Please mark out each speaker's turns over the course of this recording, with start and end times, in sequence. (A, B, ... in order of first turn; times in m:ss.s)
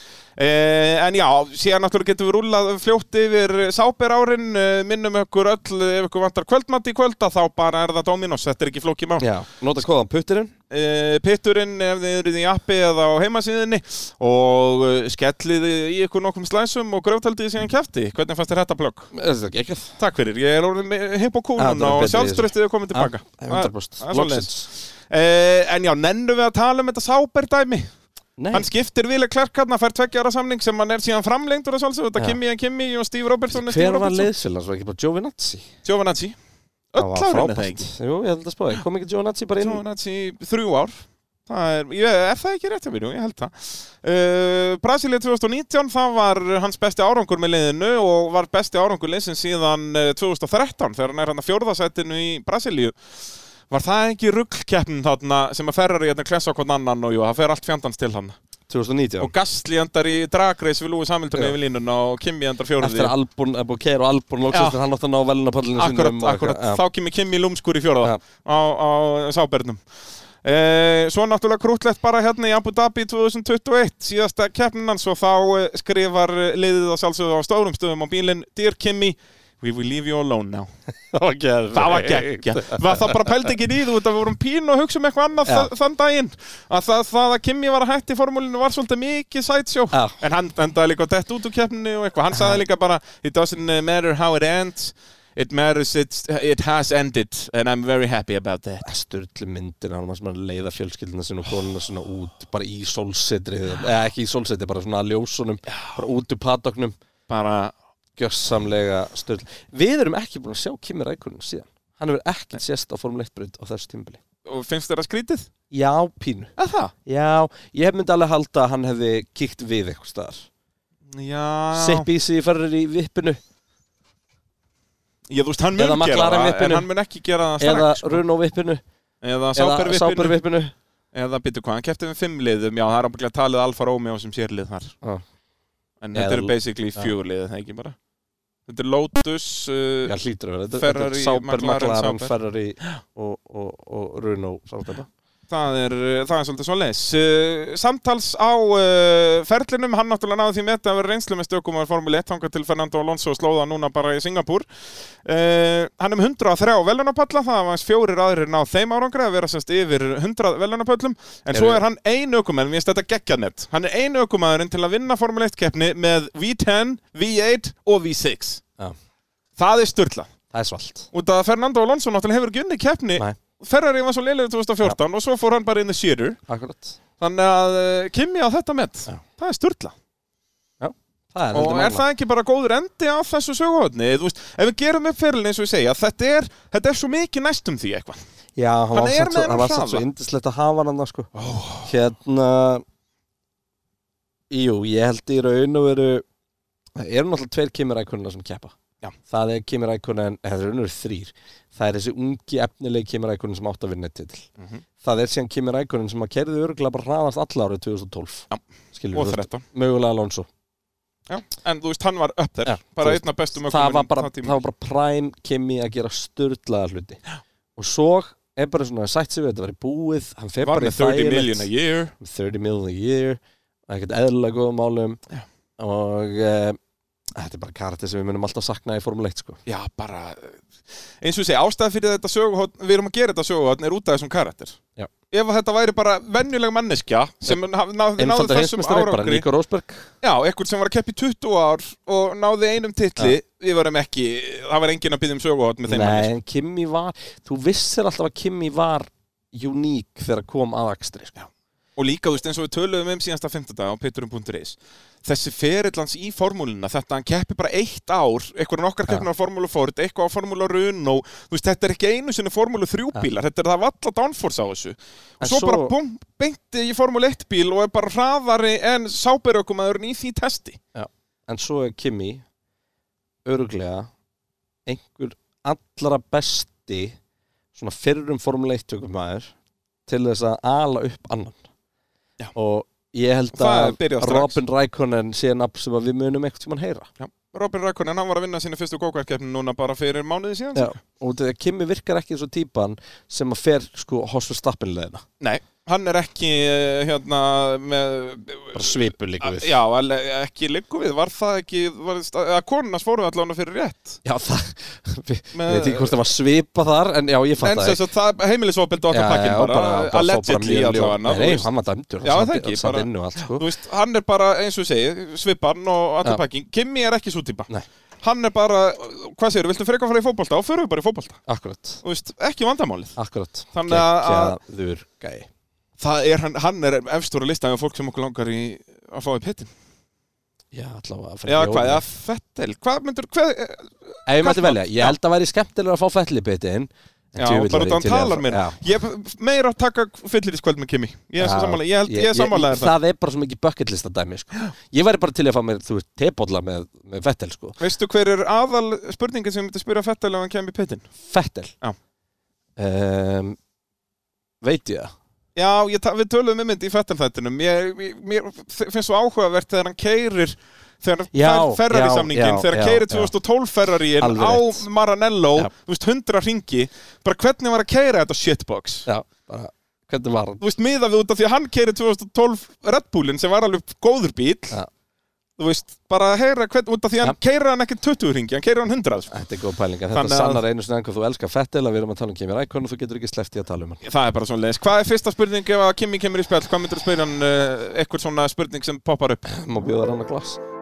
0:00.4-0:09.2 A
0:09.2-0:10.5 B
0:10.7-0:19.1 A
0:19.1-0:20.0 B
0:20.0-0:27.9 A
0:21.6-0:24.7 B
0:28.4-0:28.7 B
0:28.5-0:34.3 A
0:33.5-0:35.6 B
0:35.8-0:36.4 A
0:36.9-0:37.9 A
0:37.0-0:39.8 B
0:39.6-0:53.0 A
0:53.7-0:58.4 A
0:58.7-0:59.3 B
0:59.2-1:03.1 A
1:02.8-1:06.8 B
1:04.5-1:04.8 A
1:05.8-1:09.8 A
1:10.4-1:20.7 A
1:21.1-1:23.4 B
1:21.7-1:38.9 A
1:29.9-1:30.2 B
1:32.3-1:32.6 B
1:38.8-1:46.9 B
1:45.7-1:46.0 A
1:47.3-1:47.7 A
1:48.2-1:54.2 B
1:54.4-1:55.5 A
1:55.7-1:56.5 B
1:56.6-1:56.9 A
1:57.0-2:00.5 B
2:01.1-2:02.1 A
2:01.7-2:03.4 B
2:05.3-2:08.2 A
2:05.8-2:06.9 B
2:07.6-2:08.8 B
2:09.2-2:10.4 A
2:09.5-2:10.7 B
2:11.1-2:14.9 A
2:16.0-2:18.0 A
2:16.1-2:17.1 B
2:18.6-2:20.1 A
2:20.0-2:25.1 B
2:20.7-2:22.3 A
2:25.5-2:34.6 A
2:35.2-2:48.6 A
2:41.5-2:41.8 B
2:49.6-2:50.3 A
2:50.5-2:51.1 B
2:51.1-2:56.4 A
2:56.5-2:57.0 B
2:57.2-2:59.9 A
3:00.8-3:02.0 B
3:01.5-3:08.2 A
3:08.6-3:11.3 B
3:08.9-3:10.0 A
3:11.3-3:11.9 A
3:11.8-3:12.8 B
3:14.5-3:16.2 B
3:17.0-3:18.7 B
3:19.3-3:24.5 B
3:25.0-3:30.5 B
3:29.1-3:29.6 A
3:31.3-3:34.6 A
3:32.6-3:37.2 B
3:37.8-3:41.7 B
3:40.6-3:42.1 A
3:42.2-3:45.2 B
3:45.8-3:46.8 B
3:47.4-3:49.6 B
3:49.6-3:50.6 A
3:51.2-3:54.8 A
3:55.3-3:59.4 A
3:58.2-4:00.1 B
4:00.2-4:06.3 A
4:05.8-4:11.4 B
4:12.0-4:30.8 A
4:25.4-4:25.9 B
4:30.9-4:32.4 B
4:33.4-4:34.1 B
4:34.8-4:37.2 B
4:37.7-4:39.5 B
4:40.1-4:41.7 B
4:42.5-4:47.1 B
4:43.5-4:44.6 A
4:47.2-4:51.0 A
4:50.7-4:55.2 B
4:55.4-5:04.2 A
4:58.7-4:59.8 B
5:04.2-5:08.0 B
5:05.5-5:06.2 A
5:07.6-5:11.7 A
5:09.1-5:13.6 B
5:12.2-5:17.7 A
5:18.2-5:21.4 A
5:21.5-5:22.0 B
5:22.0-5:23.2 A
5:23.2-5:25.5 B
5:23.7-5:24.6 A
5:26.0-5:29.7 A
5:30.7-5:32.0 B
5:31.4-5:35.2 A
5:34.3-5:38.8 B
5:37.4-5:42.9 A
5:41.4-5:47.8 B
5:47.8-5:51.1 A
5:51.2-5:51.7 B
5:52.8-5:53.6 B
5:54.6-5:55.1 B
5:55.5-6:09.0 A
6:01.3-6:03.3 B
6:04.2-6:04.8 B
6:09.0-6:10.6 B
6:10.6-6:14.8 A
6:15.6-6:19.3 A
6:19.3-6:24.0 B
6:20.1-6:20.6 A
6:24.0-6:29.4 A
6:29.4-6:30.6 B